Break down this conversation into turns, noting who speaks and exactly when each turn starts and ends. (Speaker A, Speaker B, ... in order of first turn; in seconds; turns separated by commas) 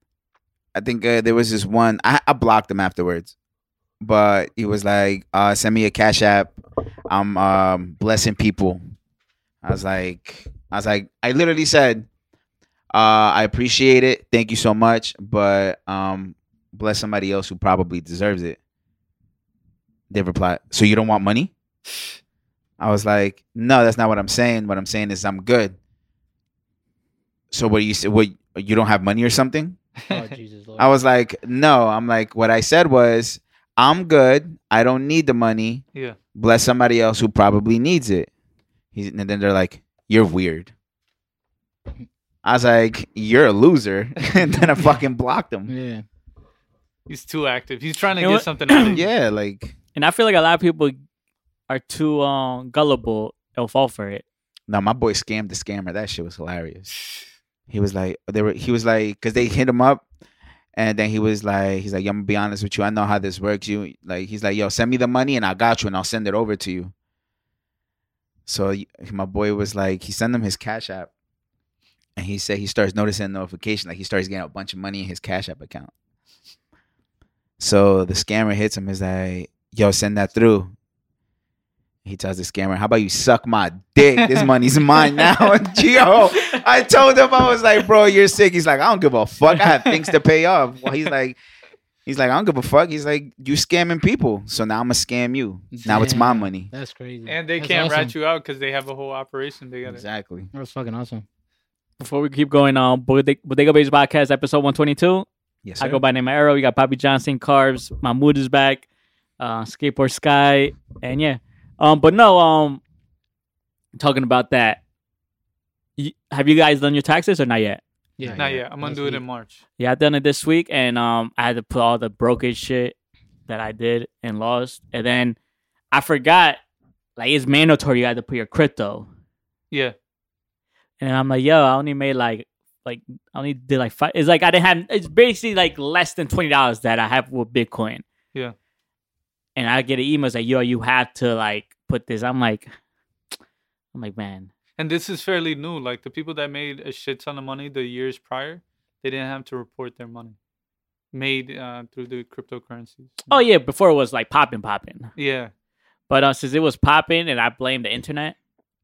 Speaker A: 0.7-3.3, Speaker A: 4.0-8.8, Speaker A: 9.6-12.1, Speaker A: 12.9-18.6, Speaker A: 20.1-21.5, Speaker A: 22.8-25.8, Speaker A: 27.5-29.8, Speaker B: 30.1-30.4, Speaker C: 30.1-30.9, Speaker A: 30.8-35.8, Speaker A: 36.3-38.3, Speaker A: 38.9-40.7, Speaker A: 42.4-45.7, Speaker C: 45.7-46.0, Speaker B: 47.1-49.0, Speaker D: 48.2-49.0, Speaker A: 48.9-49.7, Speaker D: 49.9-51.0, Speaker D: 51.7-54.2, Speaker A: 54.7-56.9, Speaker A: 57.7-60.0, Speaker A: 60.7-66.9, Speaker A: 68.5-71.1, Speaker A: 72.2-75.9, Speaker A: 77.6-80.7, Speaker A: 82.0-91.4, Speaker B: 84.2-84.5, Speaker A: 92.0-96.7, Speaker C: 95.7-98.1, Speaker B: 97.2-100.0, Speaker A: 99.8-100.5, Speaker C: 100.5-101.2, Speaker D: 102.0-105.2, Speaker A: 105.6-106.0, Speaker D: 105.8-108.8, Speaker D: 109.4-112.8, Speaker D: 114.0-114.8, Speaker D: 116.0-117.8, Speaker C: 118.2-119.2, Speaker A: 118.2-118.6, Speaker B: 118.3-119.6, Speaker D: 119.8-123.0, Speaker D: 123.5-125.4, Speaker D: 125.9-126.6, Speaker D: 127.2-129.1, Speaker D: 131.0-138.0, Speaker D: 139.6-142.7, Speaker D: 143.9-144.5, Speaker B: 144.8-150.3, Speaker B: 151.1-153.3, Speaker D: 153.3-155.1, Speaker B: 155.2-155.5, Speaker D: 156.1-158.3